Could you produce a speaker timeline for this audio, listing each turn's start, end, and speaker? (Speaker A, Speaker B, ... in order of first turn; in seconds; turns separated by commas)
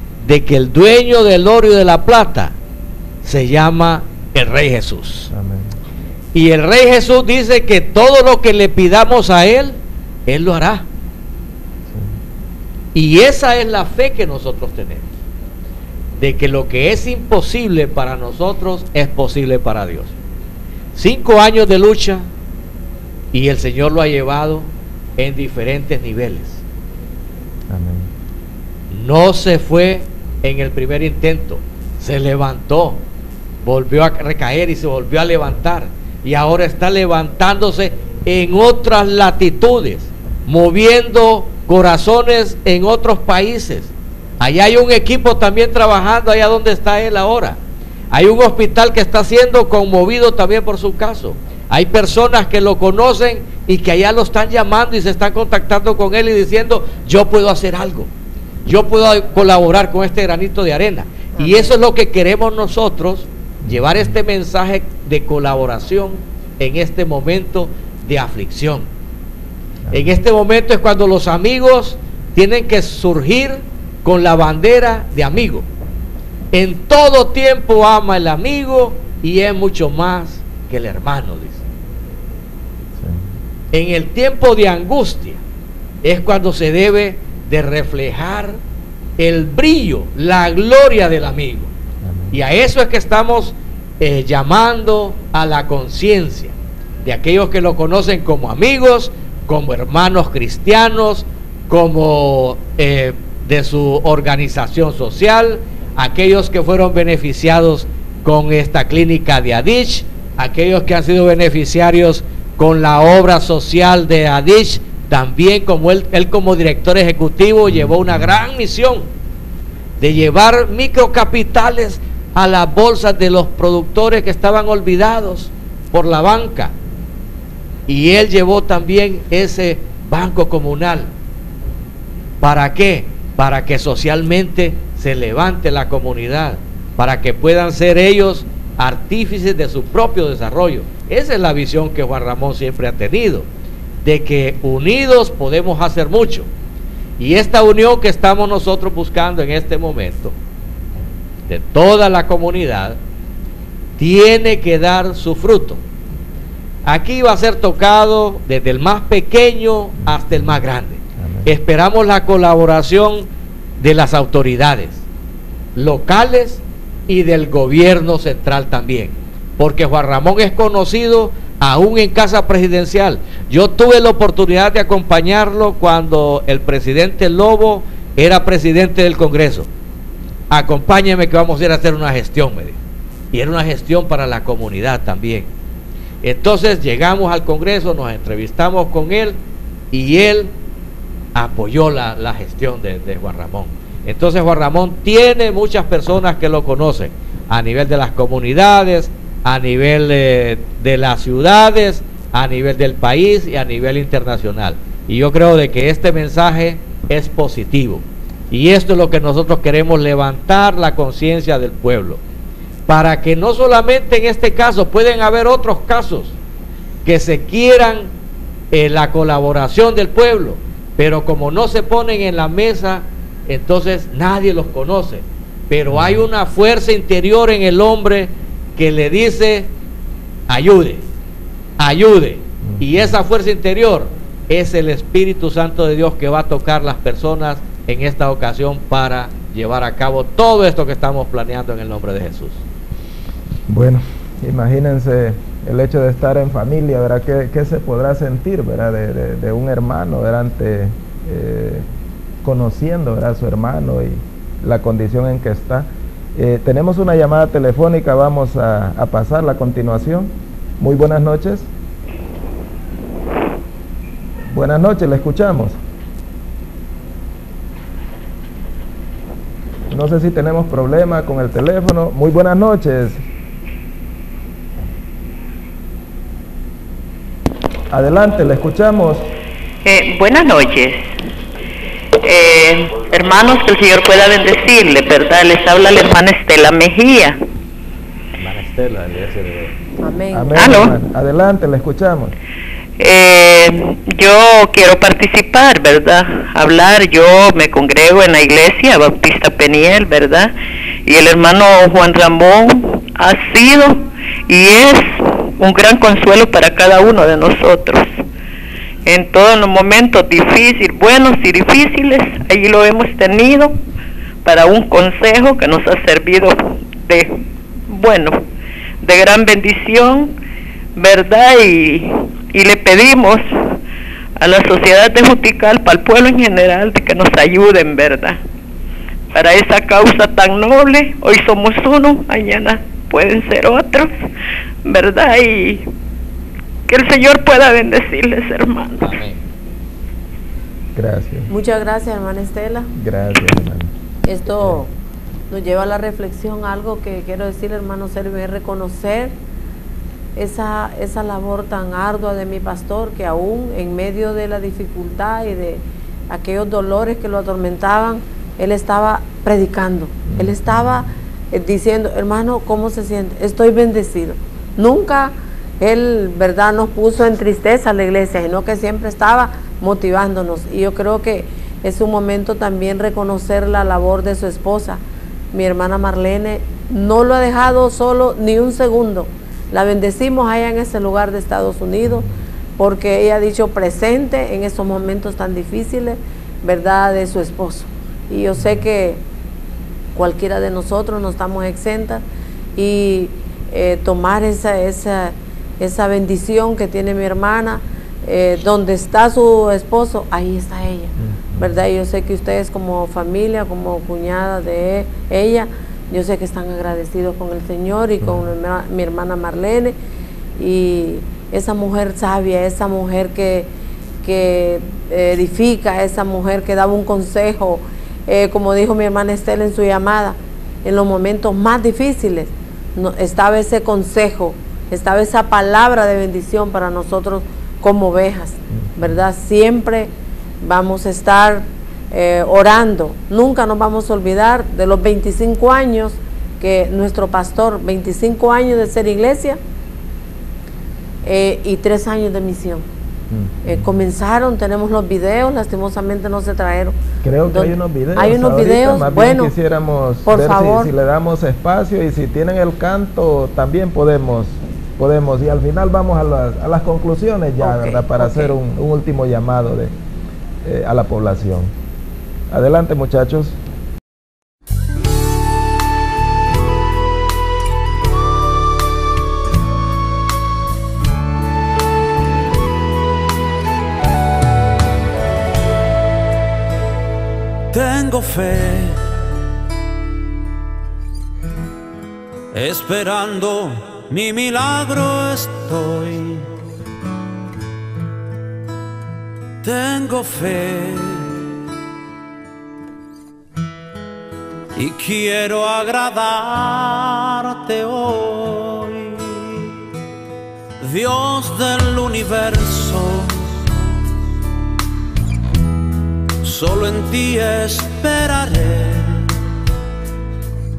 Speaker A: 0.2-2.5, Speaker A: 3.2-5.3, Speaker B: 5.3-5.8, Speaker A: 6.3-10.8, Speaker B: 11.9-12.2, Speaker A: 12.9-15.1, Speaker A: 16.2-20.1, Speaker A: 20.9-22.3, Speaker A: 23.3-26.6, Speaker B: 27.7-28.1, Speaker A: 28.9-33.0, Speaker A: 33.6-47.6, Speaker A: 48.1-58.1, Speaker A: 58.6-68.9, Speaker C: 61.4-61.7, Speaker B: 63.6-64.1, Speaker B: 69.9-70.2, Speaker A: 69.9-75.7, Speaker A: 76.5-81.6, Speaker B: 83.0-83.2, Speaker A: 83.7-85.4, Speaker A: 86.0-88.6, Speaker A: 89.2-91.7, Speaker B: 92.0-92.4, Speaker A: 92.3-119.1, Speaker B: 117.7-118.1, Speaker A: 120.0-126.7, Speaker A: 127.9-131.1, Speaker A: 132.4-143.5, Speaker A: 144.0-146.5, Speaker A: 147.2-150.3, Speaker A: 151.5-153.0, Speaker A: 154.0-155.8, Speaker A: 156.8-163.3, Speaker B: 160.1-160.4, Speaker B: 161.2-161.5, Speaker A: 163.8-165.0, Speaker A: 165.8-179.7, Speaker A: 180.5-182.8, Speaker A: 183.3-185.5, Speaker A: 186.2-189.4, Speaker A: 189.9-190.5, Speaker A: 191.3-212.2, Speaker A: 212.9-216.3, Speaker A: 217.0-218.1, Speaker A: 218.7-229.7, Speaker B: 225.9-226.2, Speaker A: 230.5-231.0, Speaker A: 231.8-242.6, Speaker B: 232.6-233.2, Speaker B: 243.7-251.8, Speaker B: 252.4-261.7, Speaker B: 264.5-265.8, Speaker B: 269.9-273.2, Speaker B: 277.9-279.3, Speaker D: 279.8-281.0, Speaker D: 282.2-287.4, Speaker A: 288.4-289.7, Speaker C: 290.0-290.8, Speaker B: 290.3-292.3, Speaker D: 290.5-290.9, Speaker D: 293.0-300.5, Speaker D: 301.1-308.1, Speaker D: 309.1-313.8, Speaker D: 314.4-318.4, Speaker D: 319.0-320.3, Speaker D: 321.0-323.7, Speaker D: 324.4-328.4, Speaker D: 329.3-334.2, Speaker D: 334.8-335.9, Speaker D: 336.9-339.1, Speaker A: 339.0-339.4, Speaker B: 340.9-341.5, Speaker C: 341.5-342.9, Speaker B: 342.9-343.9, Speaker C: 344.2-344.9, Speaker B: 344.5-344.8, Speaker C: 345.5-349.3, Speaker C: 350.4-375.0, Speaker B: 360.3-360.8, Speaker C: 375.5-382.3, Speaker C: 382.8-389.2, Speaker C: 390.1-392.2, Speaker C: 392.8-409.9, Speaker B: 401.2-401.7, Speaker C: 410.6-413.7, Speaker C: 414.2-439.6, Speaker B: 428.8-429.1, Speaker C: 441.2-442.9, Speaker B: 443.3-443.9, Speaker C: 443.6-446.9, Speaker B: 447.2-459.9, Speaker C: 447.5-449.5, Speaker C: 450.2-450.9, Speaker C: 457.6-458.5, Speaker B: 460.6-461.7, Speaker B: 462.5-463.6, Speaker E: 477.7-479.1, Speaker E: 482.5-486.5, Speaker E: 489.6-491.4, Speaker E: 494.8-499.7, Speaker E: 500.8-503.6, Speaker E: 506.4-509.3